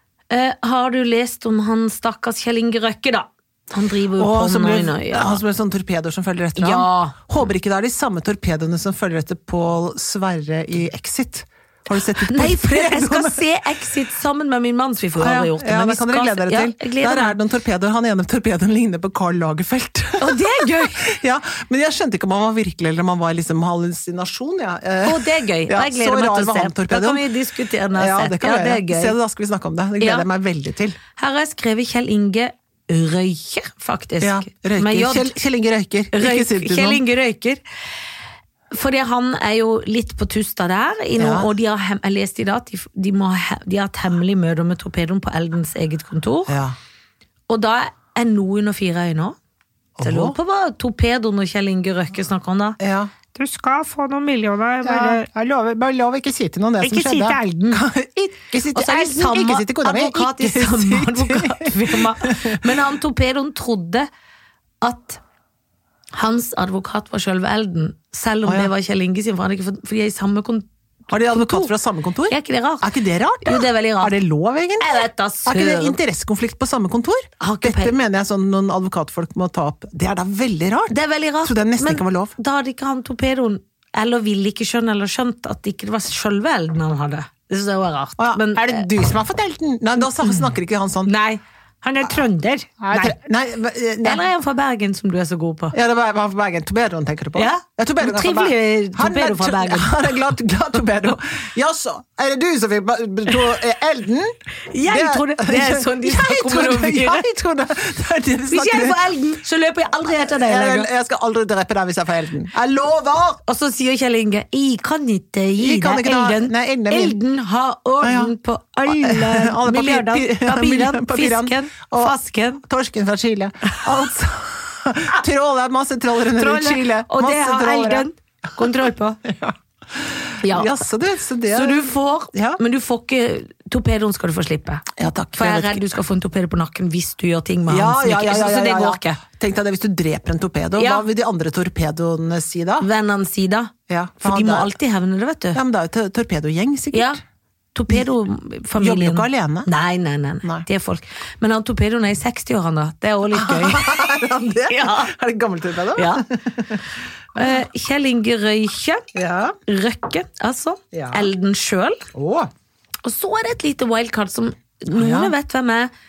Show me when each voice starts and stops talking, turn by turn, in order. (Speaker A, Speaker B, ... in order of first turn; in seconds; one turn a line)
Speaker A: 0.3-5.4
Speaker B: 4.2-13.4
Speaker A: 6.6-7.2
Speaker A: 12.2-17.4
Speaker B: 15.2-27.3
Speaker A: 20.2-21.1
Speaker A: 25.0-29.1
Speaker B: 27.9-31.0
Speaker A: 30.0-30.3
Speaker A: 31.2-35.3
Speaker B: 34.2-37.0
Speaker A: 36.1-37.6
Speaker A: 38.7-46.5
Speaker B: 41.2-41.5
Speaker B: 46.5-46.8
Speaker A: 47.5-49.4
Speaker B: 50.0-50.4
Speaker A: 50.0-52.8
Speaker B: 52.8-53.1
Speaker A: 53.3-55.3
Speaker B: 54.8-62.6
Speaker A: 56.8-57.8
Speaker A: 58.7-64.1
Speaker A: 64.8-65.2
Speaker A: 66.1-71.7
Speaker B: 68.5-68.7
Speaker B: 71.1-82.3
Speaker A: 72.3-72.9
Speaker A: 73.4-74.2
Speaker A: 74.8-76.0
Speaker A: 77.4-78.0
Speaker A: 80.9-88.9
Speaker B: 88.2-91.1
Speaker A: 91.0-93.2
Speaker B: 92.8-94.3
Speaker A: 94.0-95.8
Speaker B: 95.7-104.3
Speaker A: 97.3-100.0
Speaker A: 104.7-107.3
Speaker B: 104.8-109.0
Speaker A: 108.5-110.9
Speaker B: 110.1-113.4
Speaker A: 113.5-122.6
Speaker B: 115.6-117.2
Speaker B: 118.0-118.3
Speaker B: 118.9-128.7
Speaker A: 126.4-129.2
Speaker B: 129.2-132.6
Speaker A: 130.4-130.7
Speaker A: 131.5-139.2
Speaker B: 135.0-136.0
Speaker B: 137.7-142.9
Speaker A: 140.8-141.1
Speaker A: 142.8-145.6
Speaker B: 143.9-144.7
Speaker B: 145.5-147.2
Speaker A: 146.9-147.2
Speaker A: 147.8-155.1
Speaker B: 148.8-149.7
Speaker B: 153.3-156.8
Speaker A: 155.9-156.2
Speaker A: 157.3-159.1
Speaker B: 159.1-159.6
Speaker A: 159.7-162.1
Speaker B: 160.9-161.3
Speaker B: 162.1-162.5
Speaker A: 163.0-165.9
Speaker B: 164.9-165.3